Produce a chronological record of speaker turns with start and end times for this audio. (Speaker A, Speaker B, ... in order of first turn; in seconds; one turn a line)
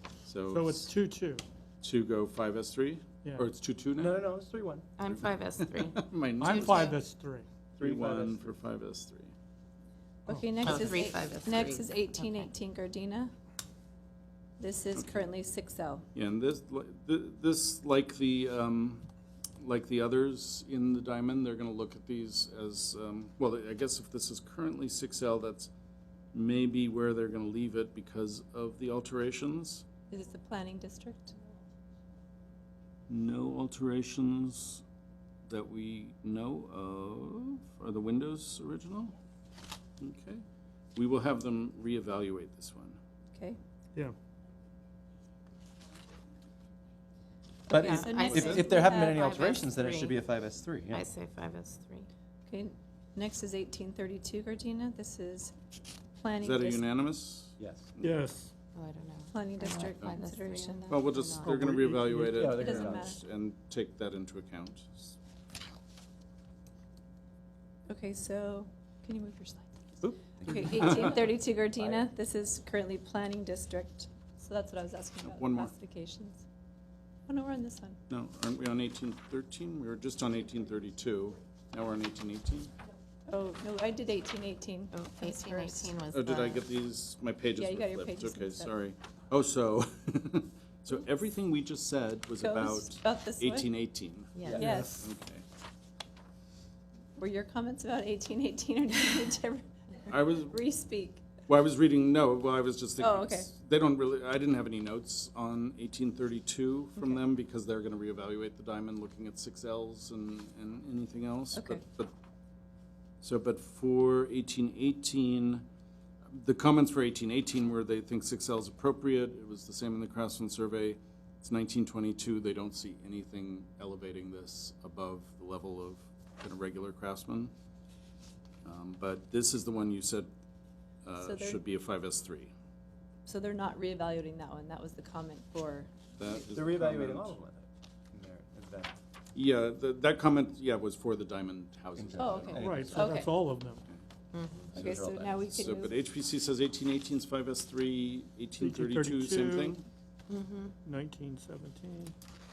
Speaker A: 0.2-0.9
Speaker B: 0.5-1.4
Speaker A: 1.8-4.2
Speaker B: 3.2-3.5
Speaker C: 3.9-4.9
Speaker D: 5.0-6.0
Speaker A: 5.0-7.0
Speaker B: 6.4-7.5
Speaker D: 6.6-6.9
Speaker A: 7.8-9.3
Speaker C: 7.8-8.5
Speaker B: 10.3-11.1
Speaker E: 10.3-13.3
Speaker D: 10.6-12.5
Speaker E: 14.6-16.1
Speaker A: 14.9-15.2
Speaker A: 16.1-19.1
Speaker A: 19.6-25.7
Speaker A: 26.3-29.9
Speaker E: 30.1-31.4
Speaker A: 33.1-34.8
Speaker A: 35.5-39.1
Speaker A: 40.0-40.4
Speaker A: 41.0-43.0
Speaker E: 43.3-43.6
Speaker C: 47.7-51.0
Speaker D: 47.7-50.2
Speaker E: 48.0-49.3
Speaker A: 48.3-48.7
Speaker D: 50.9-52.1
Speaker E: 52.5-55.5
Speaker E: 56.2-56.9
Speaker A: 56.4-58.2
Speaker C: 57.6-57.9
Speaker B: 58.0-58.5
Speaker D: 58.8-61.8
Speaker E: 59.3-61.2
Speaker A: 60.9-65.2
Speaker C: 61.4-63.2
Speaker E: 62.5-63.2
Speaker E: 67.9-69.8
Speaker C: 70.0-72.1
Speaker E: 70.4-76.5
Speaker A: 70.8-71.2
Speaker A: 75.2-75.7
Speaker E: 77.3-78.0
Speaker A: 78.1-82.7
Speaker E: 83.3-85.9
Speaker D: 84.9-86.7
Speaker A: 86.1-95.4
Speaker E: 87.6-88.7
Speaker E: 92.4-93.7
Speaker D: 94.4-94.7
Speaker B: 94.5-95.1
Speaker E: 94.5-95.0
Speaker E: 97.2-101.2
Speaker A: 100.1-100.6
Speaker A: 101.5-112.1
Speaker E: 103.0-103.5
Speaker E: 111.5-111.8
Speaker A: 113.2-115.7
Speaker A: 116.3-127.5
Speaker A: 128.7-130.3
Speaker A: 131.0-132.5
Speaker E: 131.2-131.6
Speaker E: 133.3-135.9
Speaker A: 136.2-137.4
Speaker C: 136.3-138.9
Speaker A: 139.3-143.2
Speaker C: 142.0-143.1
Speaker E: 142.2-143.3
Speaker B: 142.6-143.8
Speaker D: 144.3-144.7
Speaker C: 144.6-145.7
Speaker E: 144.7-146.0
Speaker A: 145.5-149.8
Speaker B: 148.6-149.8
Speaker D: 150.3-150.8
Speaker B: 150.8-152.1